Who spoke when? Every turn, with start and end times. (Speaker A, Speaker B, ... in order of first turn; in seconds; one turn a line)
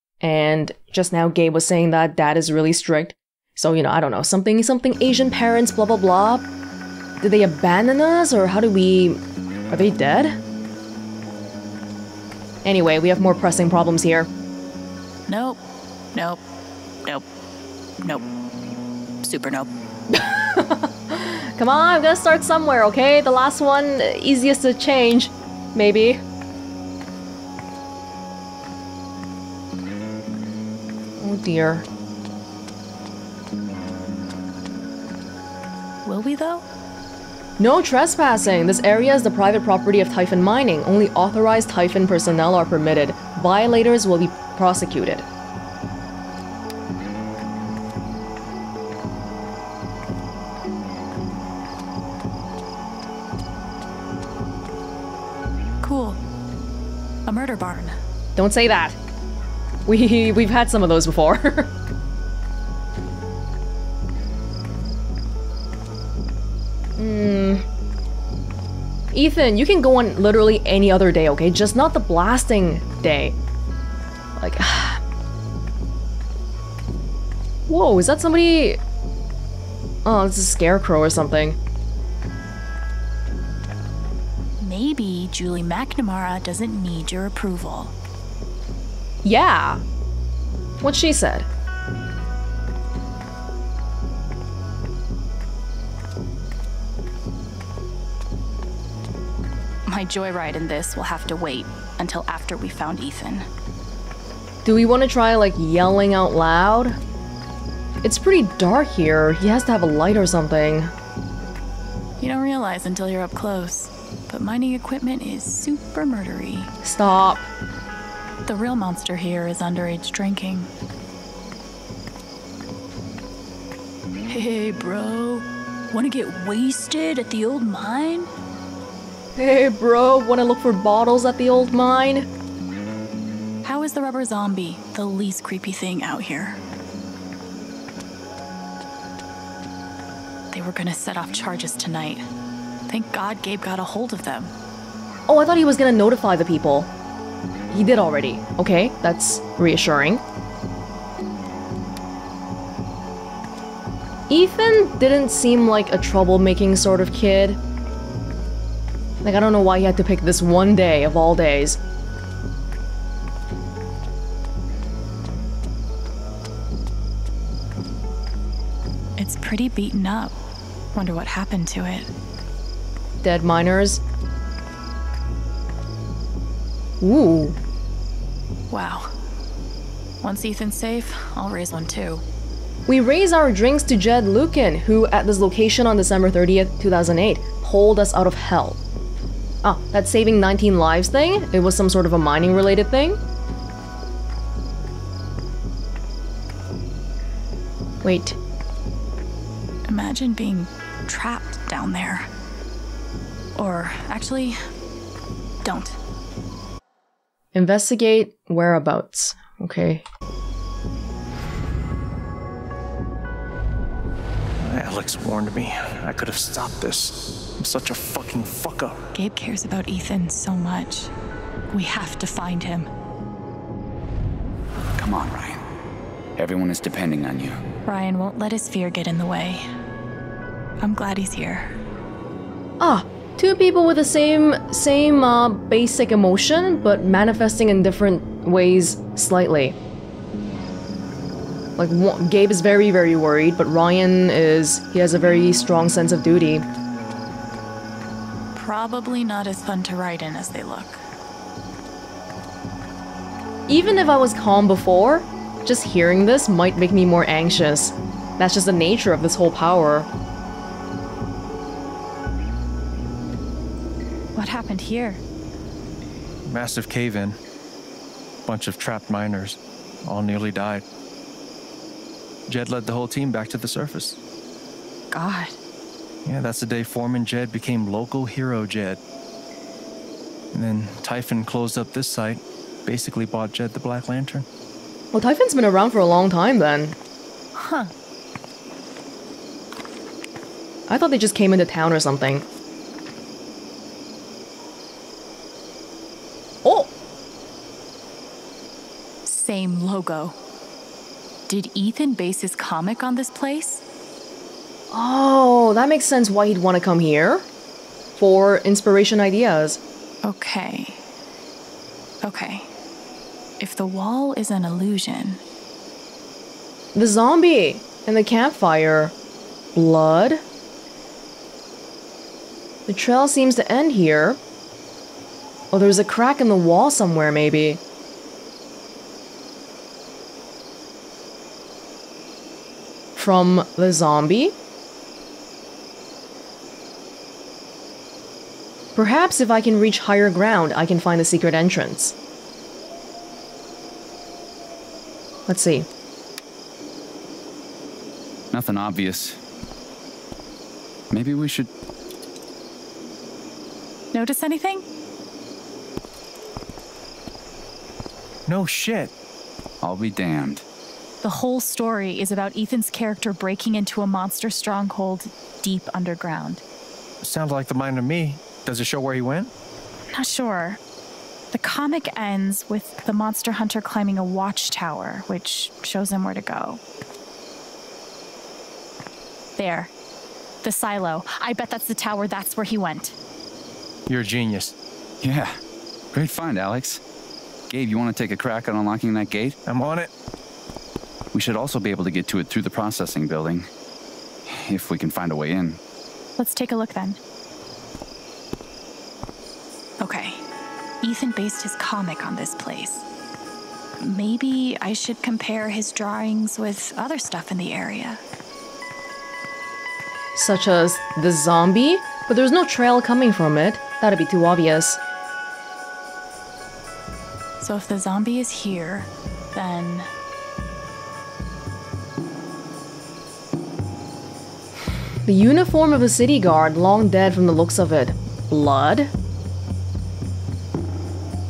Speaker A: 0.2-6.5
Speaker A: 7.2-9.2
Speaker A: 9.7-10.4
Speaker A: 12.6-14.3
Speaker B: 15.3-15.6
Speaker B: 16.1-16.4
Speaker B: 19.2-19.7
Speaker A: 20.1-26.2
Speaker A: 31.2-31.9
Speaker B: 36.0-36.6
Speaker A: 37.6-45.2
Speaker B: 55.8-56.2
Speaker B: 57.3-58.0
Speaker A: 58.4-59.0
Speaker A: 59.9-61.7
Speaker A: 67.0-67.6
Speaker A: 69.1-73.4
Speaker A: 74.4-75.0
Speaker A: 77.7-78.8
Speaker A: 80.0-81.6
Speaker B: 84.6-87.9
Speaker A: 89.2-89.8
Speaker A: 90.8-91.5
Speaker B: 99.9-103.5
Speaker A: 104.7-107.0
Speaker A: 108.0-110.9
Speaker B: 112.2-116.7
Speaker A: 116.8-117.5
Speaker B: 118.5-120.7
Speaker B: 124.3-128.3
Speaker A: 129.4-132.3
Speaker B: 133.6-136.6
Speaker B: 140.5-142.3
Speaker B: 142.9-144.5
Speaker A: 145.3-146.9
Speaker A: 147.7-150.2
Speaker A: 154.3-157.6
Speaker A: 159.2-161.8
Speaker B: 169.2-170.3
Speaker B: 170.9-172.1
Speaker A: 173.2-174.0
Speaker A: 177.0-177.6
Speaker B: 178.7-179.1
Speaker B: 180.2-182.2
Speaker A: 182.9-188.8
Speaker A: 189.6-193.2
Speaker A: 198.0-198.4
Speaker B: 199.9-202.3
Speaker B: 203.6-204.6
Speaker B: 205.6-206.0
Speaker A: 207.5-210.1
Speaker C: 214.6-219.0
Speaker B: 219.1-221.1
Speaker B: 221.7-222.9
Speaker D: 225.0-225.6
Speaker D: 226.4-227.6
Speaker B: 227.9-229.7
Speaker B: 230.8-231.7
Speaker A: 232.8-239.8
Speaker A: 241.8-246.7
Speaker B: 248.6-251.0
Speaker A: 253.7-260.1
Speaker B: 264.4-265.2
Speaker C: 266.4-267.4
Speaker C: 268.4-270.8
Speaker C: 272.5-274.2
Speaker B: 275.1-275.6
Speaker C: 276.2-279.0
Speaker C: 280.5-284.5
Speaker A: 285.1-287.0
Speaker B: 287.6-287.9
Speaker A: 290.9-292.4
Speaker A: 296.6-296.9
Speaker B: 299.3-300.4
Speaker B: 301.5-303.8
Speaker A: 304.9-307.5
Speaker A: 308.2-309.8
Speaker B: 310.2-311.0
Speaker B: 312.2-312.7
Speaker B: 313.6-315.4
Speaker A: 316.9-319.1
Speaker A: 319.8-320.4
Speaker A: 322.9-324.4
Speaker A: 325.7-327.8
Speaker A: 333.2-334.6
Speaker A: 339.0-342.1
Speaker A: 345.5-345.9
Speaker D: 348.5-349.4
Speaker D: 351.1-351.7
Speaker B: 354.1-354.9
Speaker C: 358.5-359.1
Speaker D: 359.8-360.6
Speaker B: 361.2-366.6
Speaker C: 367.2-369.5
Speaker B: 370.1-370.8
Speaker B: 371.5-376.8
Speaker B: 379.6-379.9
Speaker B: 380.6-383.2
Speaker C: 384.1-384.8
Speaker D: 385.2-385.6
Speaker D: 386.1-387.0
Speaker D: 387.7-389.6
Speaker C: 389.7-390.1
Speaker D: 391.3-393.7
Speaker D: 394.5-395.8
Speaker B: 396.4-397.2
Speaker B: 400.0-400.4
Speaker B: 401.0-403.1
Speaker B: 404.0-408.2
Speaker A: 410.4-415.0
Speaker B: 417.6-420.1
Speaker A: 425.2-429.1